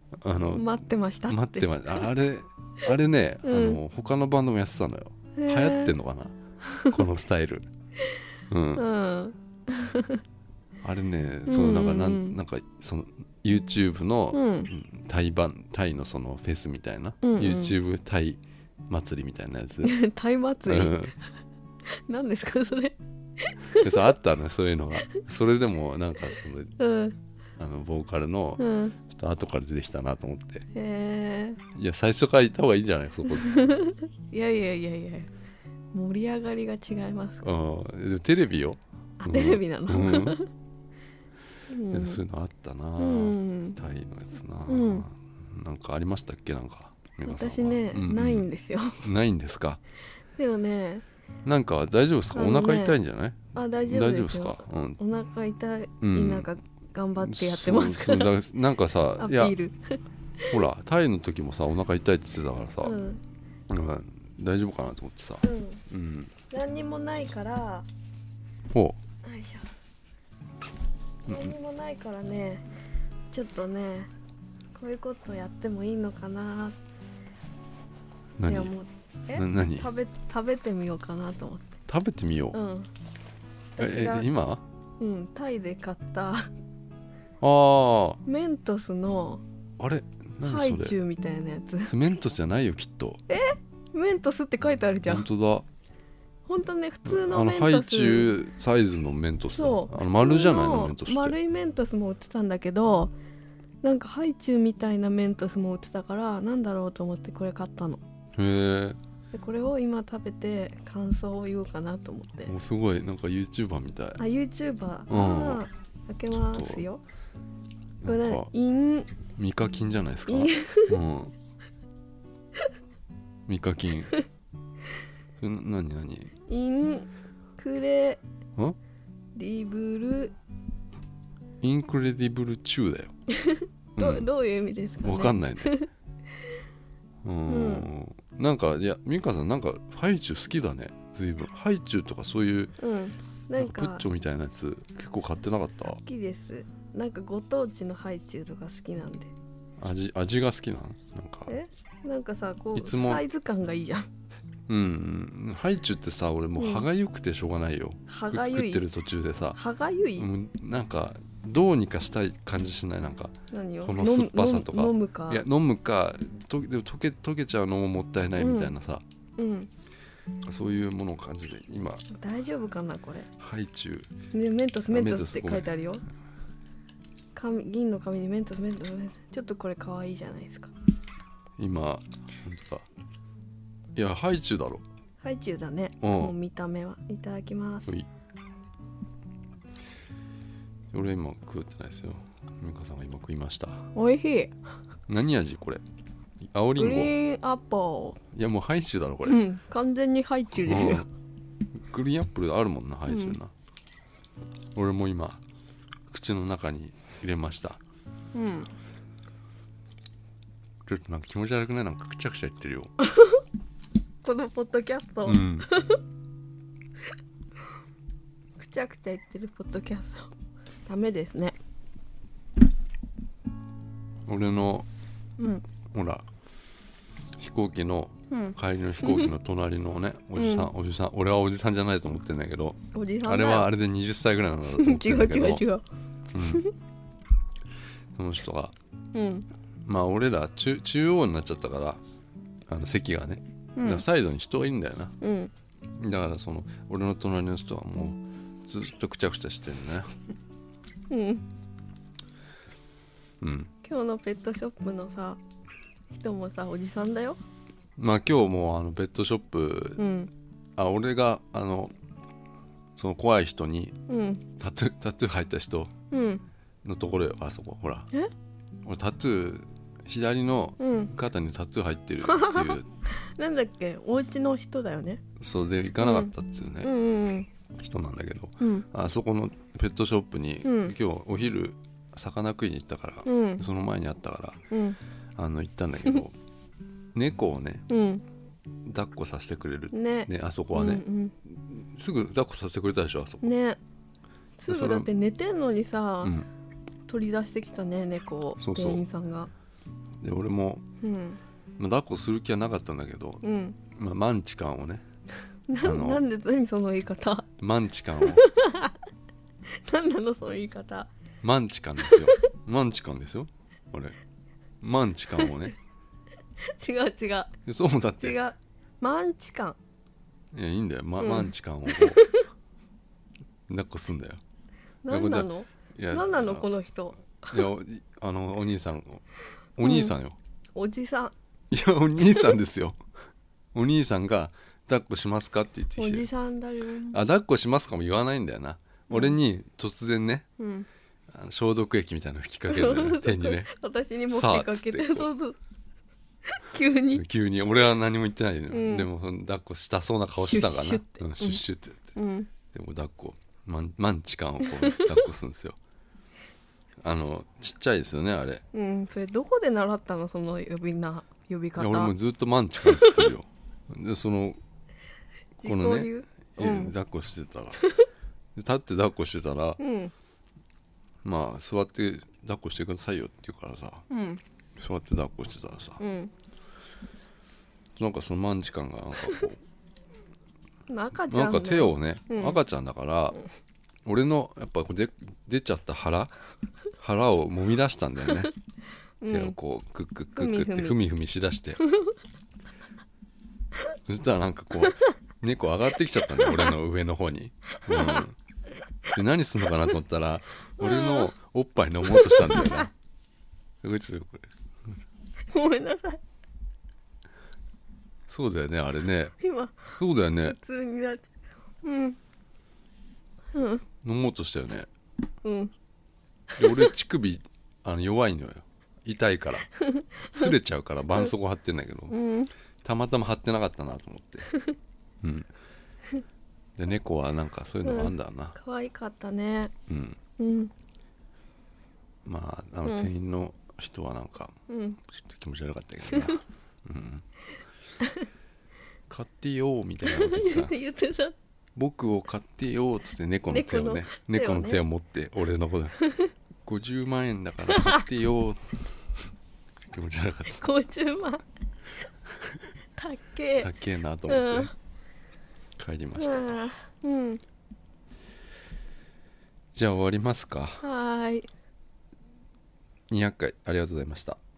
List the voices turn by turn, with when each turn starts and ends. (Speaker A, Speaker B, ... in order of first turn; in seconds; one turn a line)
Speaker A: 0.2-0.7
Speaker B: 0.6-1.7
Speaker A: 1.3-7.7
Speaker B: 3.5-3.8
Speaker B: 5.4-5.9
Speaker A: 8.5-8.8
Speaker B: 8.8-10.2
Speaker A: 10.8-20.0
Speaker B: 11.5-12.4
Speaker B: 14.3-14.7
Speaker B: 17.2-17.8
Speaker B: 19.8-21.1
Speaker A: 20.6-21.1
Speaker B: 22.1-24.0
Speaker A: 23.7-26.8
Speaker B: 26.8-27.2
Speaker A: 27.6-30.7
Speaker B: 28.6-28.9
Speaker B: 30.7-31.6
Speaker A: 31.7-33.6
Speaker B: 33.7-35.3
Speaker B: 35.9-37.4
Speaker A: 37.4-40.4
Speaker B: 39.2-40.4
Speaker B: 41.7-42.2
Speaker A: 41.9-49.8
Speaker B: 43.0-43.8
Speaker B: 44.7-45.1
Speaker B: 47.2-49.0
Speaker B: 50.4-51.0
Speaker A: 51.5-55.0
Speaker B: 52.3-53.0
Speaker B: 53.5-58.3
Speaker A: 56.0-56.5
Speaker A: 57.2-59.6
Speaker B: 59.2-60.0
Speaker A: 60.5-63.0
Speaker B: 62.8-63.2
Speaker A: 63.7-66.3
Speaker B: 65.4-65.8
Speaker B: 66.5-67.9
Speaker A: 68.7-69.0
Speaker B: 69.2-69.7
Speaker A: 71.3-71.5
Speaker B: 71.3-72.7
Speaker B: 73.3-74.1
Speaker B: 74.7-76.8
Speaker A: 78.4-78.7
Speaker B: 78.5-81.7
Speaker A: 79.3-79.9
Speaker A: 81.9-82.6
Speaker B: 82.5-82.9
Speaker B: 83.8-84.3
Speaker A: 83.8-84.6
Speaker B: 85.0-86.5
Speaker A: 87.4-88.2
Speaker B: 88.3-89.4
Speaker A: 89.8-91.0
Speaker B: 90.5-91.9
Speaker A: 91.8-93.2
Speaker B: 93.3-95.2
Speaker A: 95.0-95.7
Speaker B: 96.5-98.3
Speaker A: 97.0-101.4
Speaker B: 99.5-103.1
Speaker B: 103.8-108.0
Speaker A: 108.4-109.0
Speaker B: 109.3-112.5
Speaker A: 112.4-114.2
Speaker B: 114.2-117.0
Speaker A: 115.1-115.7
Speaker A: 116.3-116.8
Speaker A: 118.0-118.5
Speaker B: 118.0-119.1
Speaker A: 119.3-121.3
Speaker B: 120.3-121.0
Speaker A: 123.5-124.2
Speaker A: 125.4-126.3
Speaker B: 126.5-127.1
Speaker B: 127.6-128.2
Speaker B: 129.3-130.3
Speaker A: 131.6-133.1
Speaker B: 133.4-135.9
Speaker A: 134.0-134.3
Speaker A: 135.0-135.8
Speaker A: 137.2-142.8
Speaker B: 137.5-137.9
Speaker B: 142.8-144.1
Speaker A: 143.6-146.0
Speaker B: 145.8-149.3
Speaker A: 149.8-151.6
Speaker B: 151.5-154.1
Speaker A: 152.8-153.2
Speaker A: 154.7-159.6
Speaker B: 156.6-156.9
Speaker B: 158.1-158.8
Speaker B: 159.6-160.3
Speaker A: 160.2-169.0
Speaker B: 163.5-165.4
Speaker B: 168.4-168.7
Speaker B: 169.4-169.7
Speaker A: 170.5-172.1
Speaker B: 172.1-173.3
Speaker A: 173.4-174.2
Speaker B: 174.3-176.0
Speaker A: 174.9-175.7
Speaker B: 177.3-180.7
Speaker A: 181.6-182.9
Speaker A: 184.0-184.8
Speaker B: 185.2-187.9
Speaker A: 186.0-186.3
Speaker A: 190.9-193.9
Speaker B: 193.9-194.5
Speaker A: 195.1-195.8
Speaker A: 196.4-197.2
Speaker B: 196.8-198.2
Speaker A: 198.3-199.4
Speaker B: 199.3-201.1
Speaker A: 200.5-201.1
Speaker A: 201.9-203.5
Speaker B: 203.1-203.4
Speaker A: 204.8-205.4
Speaker A: 206.1-207.8
Speaker B: 208.3-208.7
Speaker A: 210.9-212.9
Speaker B: 214.2-216.0
Speaker A: 215.2-215.7
Speaker B: 218.6-220.3
Speaker B: 220.9-221.6
Speaker A: 224.3-224.9
Speaker B: 225.4-225.6
Speaker A: 225.9-226.2
Speaker A: 227.4-235.7
Speaker B: 228.3-229.3
Speaker B: 230.4-230.7
Speaker B: 232.9-233.7
Speaker B: 234.8-235.8
Speaker A: 236.3-236.7
Speaker A: 238.2-238.7
Speaker B: 239.1-239.4
Speaker A: 239.8-242.0
Speaker A: 242.7-245.2
Speaker B: 243.8-244.0
Speaker B: 245.2-245.5
Speaker A: 245.9-250.1
Speaker B: 251.1-251.4
Speaker A: 253.4-253.7
Speaker B: 253.8-255.4
Speaker B: 256.1-257.4
Speaker A: 258.0-260.0
Speaker B: 260.0-260.3
Speaker A: 260.8-261.9
Speaker A: 263.0-263.9
Speaker B: 264.1-264.4
Speaker A: 264.6-265.9
Speaker B: 266.1-266.4
Speaker A: 266.8-268.1
Speaker A: 268.9-272.9
Speaker B: 270.8-271.1
Speaker B: 272.3-275.2
Speaker A: 275.4-276.9
Speaker B: 276.0-276.3
Speaker B: 276.8-277.5
Speaker A: 277.8-284.6
Speaker B: 278.6-278.9
Speaker B: 280.6-280.9
Speaker B: 283.3-283.6
Speaker B: 284.7-285.0
Speaker A: 285.4-286.4
Speaker A: 287.1-287.9
Speaker B: 287.9-288.2
Speaker A: 288.9-293.6
Speaker B: 289.9-291.3
Speaker B: 293.4-293.8
Speaker B: 294.6-296.4
Speaker A: 294.7-295.1
Speaker A: 296.2-296.5
Speaker B: 297.1-299.5
Speaker A: 298.6-299.0
Speaker A: 300.2-300.9
Speaker B: 301.0-301.4
Speaker A: 301.8-305.1
Speaker B: 303.4-303.8
Speaker B: 305.7-307.5
Speaker A: 305.8-306.2
Speaker A: 307.6-308.5
Speaker B: 308.3-308.9
Speaker B: 309.8-311.1
Speaker A: 311.4-314.2
Speaker B: 312.1-312.3
Speaker A: 314.8-315.8
Speaker B: 316.7-317.5
Speaker A: 317.6-318.4
Speaker B: 318.2-319.8
Speaker A: 320.5-322.3
Speaker B: 321.2-322.2
Speaker A: 323.7-324.4
Speaker B: 325.1-327.6
Speaker A: 325.1-326.7
Speaker A: 327.5-329.2
Speaker A: 329.8-330.4
Speaker B: 329.8-330.1
Speaker B: 330.8-331.3
Speaker A: 331.7-333.0
Speaker A: 333.8-336.3
Speaker B: 336.0-337.2
Speaker A: 337.1-340.5
Speaker B: 339.1-339.4
Speaker B: 340.6-340.9
Speaker A: 341.3-343.7
Speaker B: 342.7-345.6
Speaker A: 344.3-345.3
Speaker B: 346.6-347.2
Speaker A: 347.1-352.1
Speaker B: 348.7-349.1
Speaker B: 350.4-351.6
Speaker B: 352.2-352.5
Speaker A: 352.7-355.8
Speaker A: 357.0-358.6
Speaker B: 358.7-362.1
Speaker A: 361.8-364.6
Speaker B: 362.9-363.3
Speaker A: 365.6-367.9
Speaker B: 365.6-366.9
Speaker A: 368.6-369.8
Speaker B: 369.8-370.1
Speaker A: 371.2-374.1
Speaker B: 374.1-374.4
Speaker A: 374.8-376.0
Speaker B: 376.0-376.3
Speaker A: 378.0-379.6
Speaker B: 380.9-382.6
Speaker A: 381.2-383.4
Speaker A: 384.1-386.3
Speaker A: 387.0-388.5
Speaker B: 389.2-389.6
Speaker A: 389.3-391.8
Speaker B: 390.4-391.0
Speaker A: 394.1-398.4
Speaker B: 397.9-398.2
Speaker A: 399.1-402.9
Speaker B: 400.8-401.3
Speaker B: 402.2-402.8
Speaker A: 403.8-404.5
Speaker B: 405.5-406.2
Speaker A: 408.3-409.4
Speaker B: 409.4-409.9
Speaker A: 410.0-410.6
Speaker B: 410.5-411.3
Speaker B: 411.8-412.2
Speaker B: 413.5-413.8
Speaker A: 414.0-414.9
Speaker B: 415.4-415.7
Speaker A: 416.6-419.7
Speaker B: 416.6-416.9
Speaker B: 420.0-420.4
Speaker A: 420.3-422.2
Speaker B: 422.1-422.5
Speaker A: 422.8-424.5
Speaker A: 425.2-425.5
Speaker A: 426.8-428.6
Speaker B: 427.8-429.7
Speaker A: 429.9-430.2
Speaker B: 430.4-430.7
Speaker A: 432.2-437.2
Speaker B: 434.7-435.0
Speaker A: 439.1-440.8
Speaker B: 440.1-441.3
Speaker A: 441.8-446.0
Speaker B: 443.5-444.8
Speaker A: 446.6-448.8
Speaker A: 449.9-450.7
Speaker B: 450.6-451.4
Speaker B: 453.0-453.7
Speaker A: 453.6-454.7
Speaker B: 454.3-454.7
Speaker A: 455.8-456.7
Speaker B: 456.2-457.4
Speaker A: 459.8-460.9
Speaker B: 460.8-461.5
Speaker A: 463.1-464.4